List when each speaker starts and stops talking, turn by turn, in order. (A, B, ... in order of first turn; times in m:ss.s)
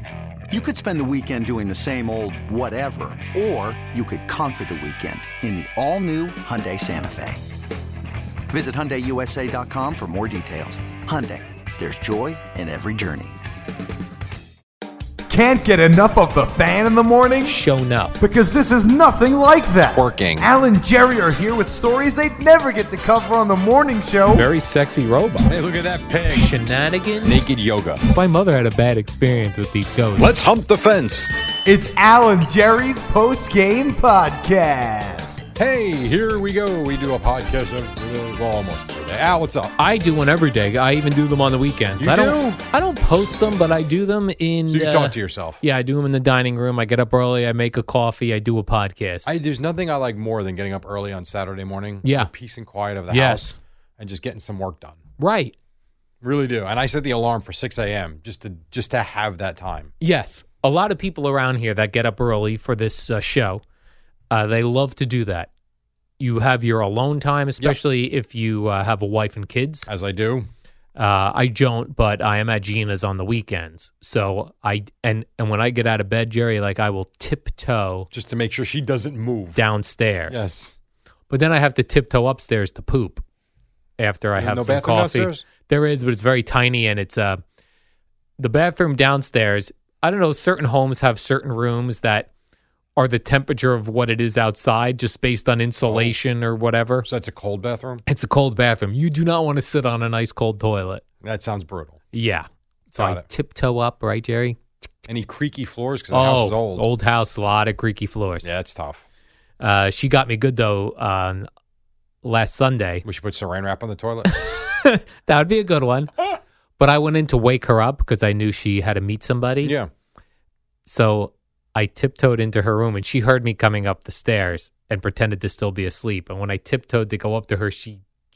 0:00.5-0:07.4 A
0:08.5-0:13.4 A
0:15.3-0:17.6 B
0:17.4-0:18.2 C
0:18.2-0:24.5 B
0:19.9-0:20.5 D
0:24.3-0:25.6 C
0:25.4-0:26.5 D
0:26.3-0:27.5 C
0:27.2-0:28.0 D
0:28.1-0:30.3 C
0:30.2-0:31.3 D
0:31.6-0:35.4 B
0:35.6-0:39.8 D
0:39.8-0:49.3 C
0:42.0-0:42.6 D
0:44.7-0:45.6 D
0:49.2-0:55.0 D
0:52.0-0:52.3 C
0:53.1-0:53.6 C
0:55.2-0:55.5 C
0:56.2-0:59.9 D
1:00.0-1:03.6 C
1:04.3-1:05.5 C
1:06.2-1:09.9 C
1:09.9-1:10.5 D
1:11.0-1:18.1 C
1:18.1-1:19.6 D
1:19.6-1:20.5 C
1:20.3-1:20.8 D
1:21.3-1:23.2 C
1:24.0-1:27.4 C
1:24.4-1:25.4 D
1:28.4-1:32.3 C
1:33.0-1:37.1 C
1:35.8-1:36.2 D
1:37.0-1:38.0 D
1:38.1-1:41.0 C
1:41.2-1:42.0 D
1:42.1-1:44.6 C
1:43.0-1:43.3 D
1:45.1-1:46.9 D
1:46.1-1:48.5 C
1:48.4-1:49.1 D
1:49.6-1:51.5 C
1:52.2-1:53.0 C
1:53.0-1:54.3 D
1:54.3-1:56.2 C
1:56.8-1:59.8 C
1:59.6-1:59.9 D
2:00.9-2:08.0 C